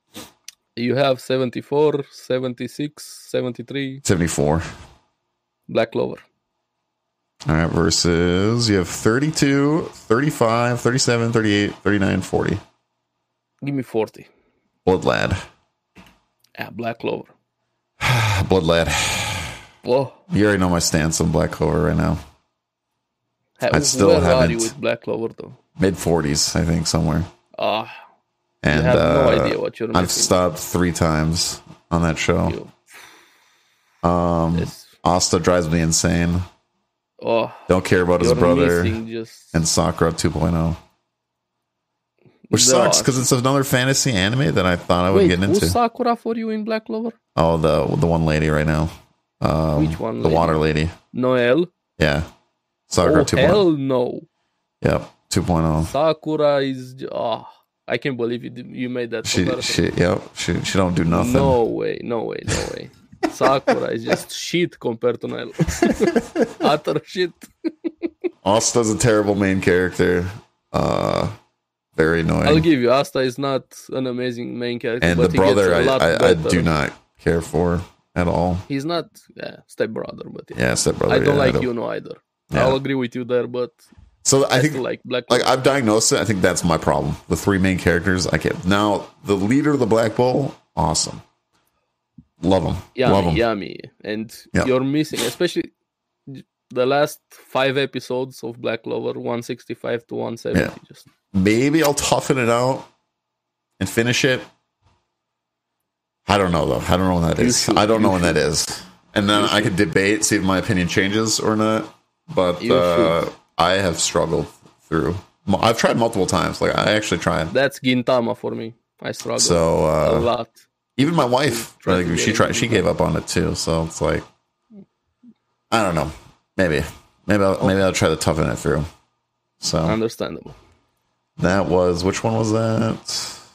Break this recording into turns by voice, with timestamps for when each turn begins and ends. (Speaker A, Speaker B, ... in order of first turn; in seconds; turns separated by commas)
Speaker A: 0.8-4.0, Speaker B: 4.0-4.6, Speaker A: 5.7-6.2, Speaker B: 7.5-12.6, Speaker A: 13.6-14.3, Speaker B: 14.8-15.4, Speaker A: 16.6-17.3, Speaker B: 18.0-19.6, Speaker A: 19.8-20.2, Speaker B: 20.3-22.2, Speaker A: 23.6-25.6, Speaker B: 23.7-24.7, Speaker B: 25.8-27.3, Speaker A: 27.5-28.0, Speaker B: 28.6-32.6, Speaker A: 28.7-30.4, Speaker A: 32.5-32.8, Speaker B: 34.0-36.4, Speaker A: 34.5-34.9, Speaker A: 37.2-39.6, Speaker B: 37.7-39.0, Speaker B: 39.5-40.8, Speaker A: 42.5-43.3, Speaker B: 42.5-45.8, Speaker A: 45.1-47.1, Speaker B: 47.3-51.0, Speaker A: 49.7-50.6, Speaker A: 51.1-51.7, Speaker B: 52.0-52.3, Speaker B: 52.9-53.6, Speaker A: 53.0-54.2, Speaker B: 54.8-55.9, Speaker A: 55.9-59.9, Speaker B: 59.2-61.6, Speaker A: 61.1-68.1, Speaker B: 65.8-66.6, Speaker B: 68.4-71.3, Speaker B: 72.0-72.7, Speaker A: 72.4-76.7, Speaker B: 75.0-78.7, Speaker A: 78.7-80.6, Speaker B: 80.5-81.7, Speaker A: 81.1-83.8, Speaker B: 82.5-82.8, Speaker B: 84.2-91.2, Speaker A: 84.5-85.5, Speaker B: 92.4-93.4, Speaker A: 92.9-95.7, Speaker A: 96.3-101.0, Speaker B: 101.3-102.9, Speaker B: 103.8-104.5, Speaker B: 106.2-117.5, Speaker A: 107.4-108.4, Speaker A: 109.3-109.7, Speaker A: 112.6-113.2, Speaker A: 117.5-120.6, Speaker B: 119.4-120.3, Speaker B: 121.0-124.2, Speaker A: 121.4-122.9, Speaker B: 125.7-128.9, Speaker B: 129.6-129.9, Speaker A: 129.8-130.6, Speaker B: 131.4-133.4